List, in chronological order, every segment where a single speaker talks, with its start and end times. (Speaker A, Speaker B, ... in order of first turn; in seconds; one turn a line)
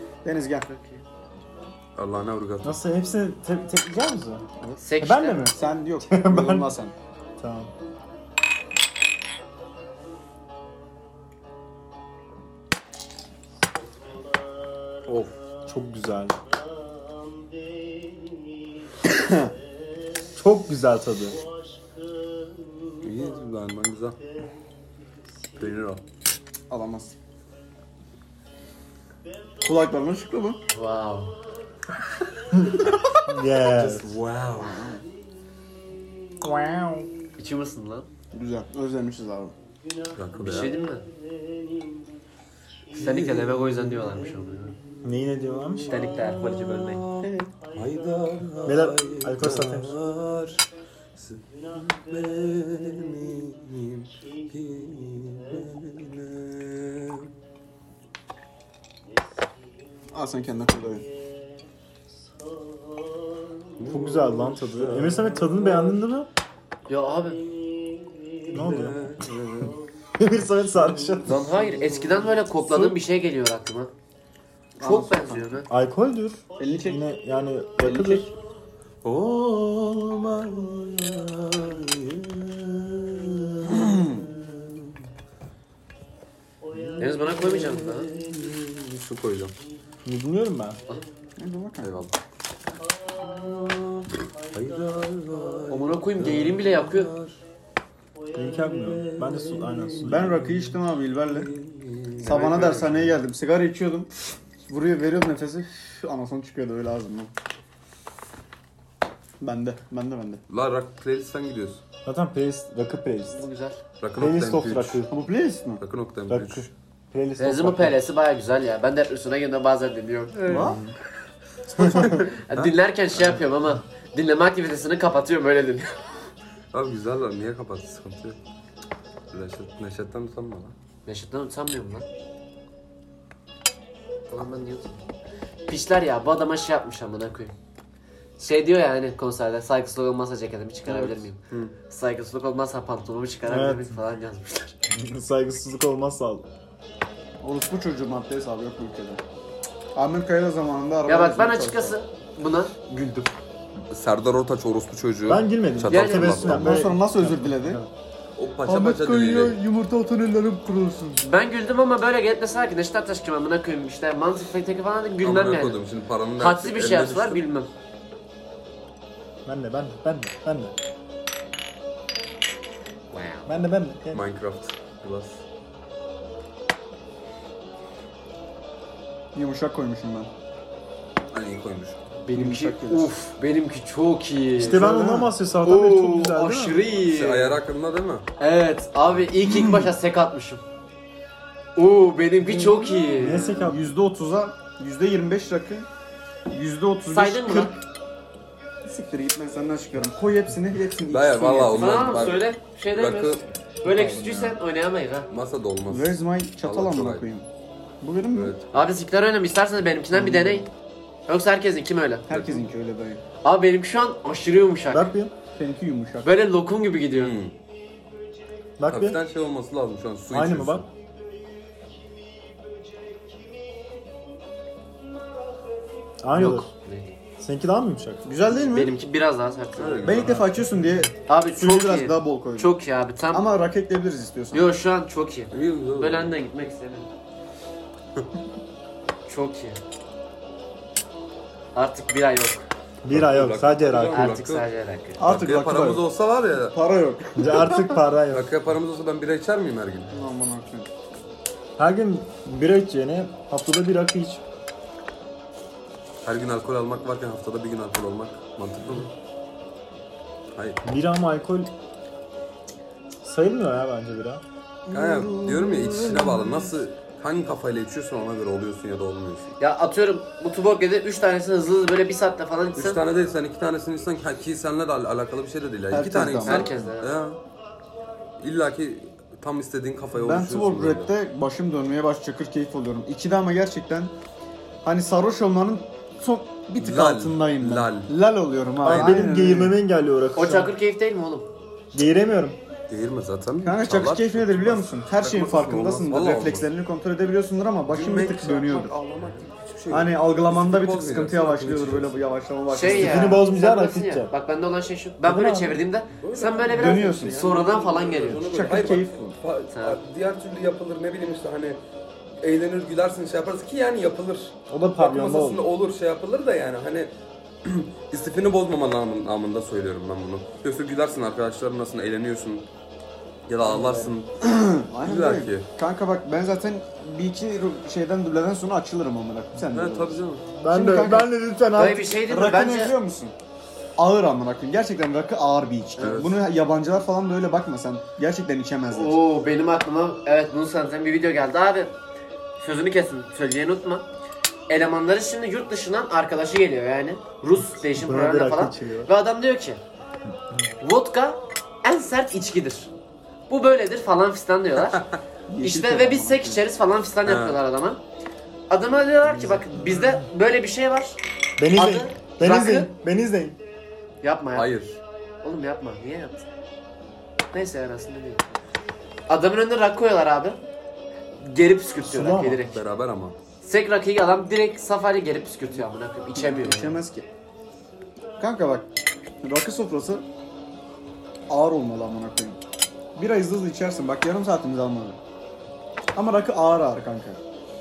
Speaker A: 0.2-0.7
Speaker B: 0.6-1.0
Speaker C: 1.9-2.8
Speaker D: 2.6-4.5
Speaker B: 4.8-5.5
Speaker D: 5.0-6.7
Speaker A: 5.5-6.9
Speaker D: 7.4-7.7
Speaker C: 15.1-15.3
Speaker D: 15.7-16.4
Speaker A: 19.1-19.5
Speaker D: 20.3-21.4
Speaker C: 23.0-24.2
Speaker C: 25.6-26.0
Speaker A: 26.7-27.1
Speaker A: 29.6-30.6
Speaker B: 30.7-31.4
Speaker D: 33.2-34.2
Speaker C: 33.6-35.0
Speaker A: 34.6-35.0
Speaker D: 36.4-37.1
Speaker B: 37.4-38.1
Speaker A: 38.3-39.5
Speaker C: 40.1-40.8
Speaker B: 40.4-41.1
Speaker C: 42.9-44.3
Speaker B: 43.0-44.7
Speaker D: 45.0-46.1
Speaker C: 45.6-50.6
Speaker B: 45.9-47.0
Speaker A: 47.2-47.5
Speaker D: 48.6-50.0
Speaker C: 51.1-57.3
Speaker A: 60.1-61.0
Speaker C: 63.8-66.0
Speaker D: 63.9-66.3
Speaker B: 66.9-67.4
Speaker C: 68.5-69.8
Speaker D: 68.5-69.0
Speaker D: 70.2-71.5
Speaker C: 70.7-73.0
Speaker B: 71.2-73.9
Speaker A: 74.8-75.5
Speaker B: 74.8-75.7
Speaker D: 75.7-78.3
Speaker A: 76.6-77.0
Speaker A: 77.8-78.3
Speaker C: 79.0-85.0
Speaker A: 83.8-84.2
Speaker C: 86.7-89.5
Speaker B: 87.0-88.1
Speaker D: 90.0-90.8
Speaker A: 91.4-92.0
Speaker C: 91.8-92.1
Speaker C: 93.1-97.4
Speaker B: 95.7-97.1
Speaker D: 98.3-100.4
Speaker C: 98.4-103.1
Speaker A: 100.0-101.5
Speaker B: 102.2-103.0
Speaker A: 102.2-104.1
Speaker A: 104.6-107.3
Speaker A: 109.4-110.4
Speaker C: 110.5-111.8
Speaker D: 112.0-113.4
Speaker B: 113.3-113.8
Speaker C: 114.0-115.0
Speaker D: 114.2-115.1
Speaker A: 115.1-115.8
Speaker C: 115.8-116.6
Speaker D: 116.3-118.0
Speaker B: 117.4-120.8
Speaker A: 120.5-120.8
Speaker D: 120.5-120.9
Speaker B: 121.8-125.9
Speaker C: 121.8-123.4
Speaker C: 126.7-128.4
Speaker C: 129.3-130.7
Speaker B: 131.1-132.1
Speaker B: 134.3-135.0
Speaker B: 135.7-137.5
Speaker B: 138.4-144.8
Speaker C: 140.9-141.7
Speaker D: 143.4-144.0
Speaker D: 144.9-146.5
Speaker A: 147.4-149.2
Speaker A: 149.9-152.0
Speaker B: 151.1-153.3
Speaker C: 153.9-156.7
Speaker D: 155.3-157.9
Speaker B: 155.9-156.5
Speaker A: 156.4-157.8
Speaker C: 158.3-159.6
Speaker A: 158.6-161.2
Speaker B: 161.2-165.8
Speaker C: 165.2-167.4
Speaker B: 166.4-167.7
Speaker D: 169.4-170.7
Speaker B: 173.1-173.5
Speaker D: 173.5-174.2
Speaker C: 174.1-175.4
Speaker A: 179.3-180.3
Speaker C: 181.3-182.0
Speaker B: 182.2-184.9
Speaker A: 182.3-183.1
Speaker D: 184.6-186.8
Speaker A: 184.6-185.3
Speaker B: 185.6-187.6
Speaker C: 187.1-188.3
Speaker B: 188.4-190.6
Speaker A: 189.4-189.9
Speaker B: 191.8-193.7
Speaker D: 192.4-193.9
Speaker A: 193.7-195.9
Speaker A: 196.5-197.8
Speaker B: 197.1-197.7
Speaker A: 198.8-202.3
Speaker C: 201.1-203.4
Speaker B: 201.8-205.3
Speaker D: 203.8-204.6
Speaker C: 205.3-207.3
Speaker A: 205.9-207.5
Speaker A: 208.0-208.5
Speaker C: 208.3-208.8
Speaker B: 208.7-210.7
Speaker A: 210.1-210.6
Speaker B: 211.3-212.3
Speaker A: 212.3-213.2
Speaker C: 212.3-212.7
Speaker B: 213.4-215.1
Speaker D: 214.9-215.3
Speaker A: 215.5-216.3
Speaker B: 216.2-217.3
Speaker C: 217.1-217.6
Speaker D: 218.8-219.2
Speaker C: 218.9-220.9
Speaker D: 220.3-220.8
Speaker D: 226.2-226.7
Speaker B: 226.3-227.1
Speaker D: 227.4-228.3
Speaker A: 228.2-228.9
Speaker B: 228.5-230.3
Speaker C: 229.7-230.5
Speaker A: 230.0-232.7
Speaker D: 230.5-230.9
Speaker B: 231.3-233.5
Speaker A: 233.3-234.7
Speaker B: 234.5-237.1
Speaker C: 235.5-236.3
Speaker B: 239.2-239.8
Speaker B: 241.7-242.7
Speaker D: 243.0-244.4
Speaker C: 243.1-244.7
Speaker B: 244.1-245.2
Speaker A: 245.2-246.0
Speaker C: 245.2-246.7
Speaker A: 246.7-248.0
Speaker D: 247.3-248.5
Speaker C: 248.3-250.2
Speaker A: 250.1-250.9
Speaker D: 251.8-254.4
Speaker C: 256.2-259.1
Speaker C: 260.5-260.8
Speaker D: 260.8-261.7
Speaker D: 263.2-264.4
Speaker A: 264.9-266.7
Speaker C: 264.9-269.6
Speaker B: 269.6-273.0
Speaker C: 272.7-277.4
Speaker A: 275.9-276.7
Speaker B: 276.4-277.1
Speaker C: 278.4-281.1
Speaker A: 280.1-284.1
Speaker A: 284.8-289.8
Speaker C: 286.8-288.1
Speaker D: 288.8-290.7
Speaker B: 290.3-291.5
Speaker D: 291.9-292.6
Speaker C: 292.9-296.7
Speaker A: 293.6-298.9
Speaker C: 297.9-302.2
Speaker B: 299.1-299.4
Speaker A: 299.9-303.4
Speaker B: 302.7-308.5
Speaker D: 302.9-304.3
Speaker D: 305.2-305.8
Speaker C: 306.2-311.8
Speaker A: 306.7-307.4
Speaker A: 308.4-309.4
Speaker B: 309.7-310.0
Speaker C: 312.4-317.1
Speaker D: 314.7-315.6
Speaker C: 317.6-322.7
Speaker C: 323.5-324.3
Speaker A: 323.6-331.3
Speaker C: 325.0-325.7
Speaker C: 329.7-330.4
Speaker D: 330.5-332.2
Speaker B: 331.8-332.9
Speaker A: 332.2-333.4
Speaker A: 334.0-339.2
Speaker C: 336.0-336.4
Speaker B: 338.9-341.9
Speaker B: 342.6-344.1
Speaker B: 344.7-349.8
Speaker D: 347.7-349.1
Speaker B: 350.8-352.9
Speaker B: 353.5-355.0
Speaker A: 355.5-356.6
Speaker B: 355.6-358.0
Speaker C: 357.2-357.6
Speaker B: 358.7-361.2
Speaker D: 359.2-360.3
Speaker D: 361.6-363.6
Speaker B: 361.7-362.9
Speaker B: 364.2-364.7
Speaker C: 364.5-365.0
Speaker B: 365.4-366.5
Speaker B: 367.5-368.4
Speaker B: 369.3-370.6
Speaker B: 371.4-372.8
Speaker D: 372.0-372.6
Speaker C: 372.7-373.4
Speaker B: 373.6-377.0
Speaker A: 376.3-377.3
Speaker A: 378.4-378.9
Speaker A: 379.4-380.2
Speaker A: 381.5-382.6
Speaker A: 383.1-385.2
Speaker A: 386.1-387.4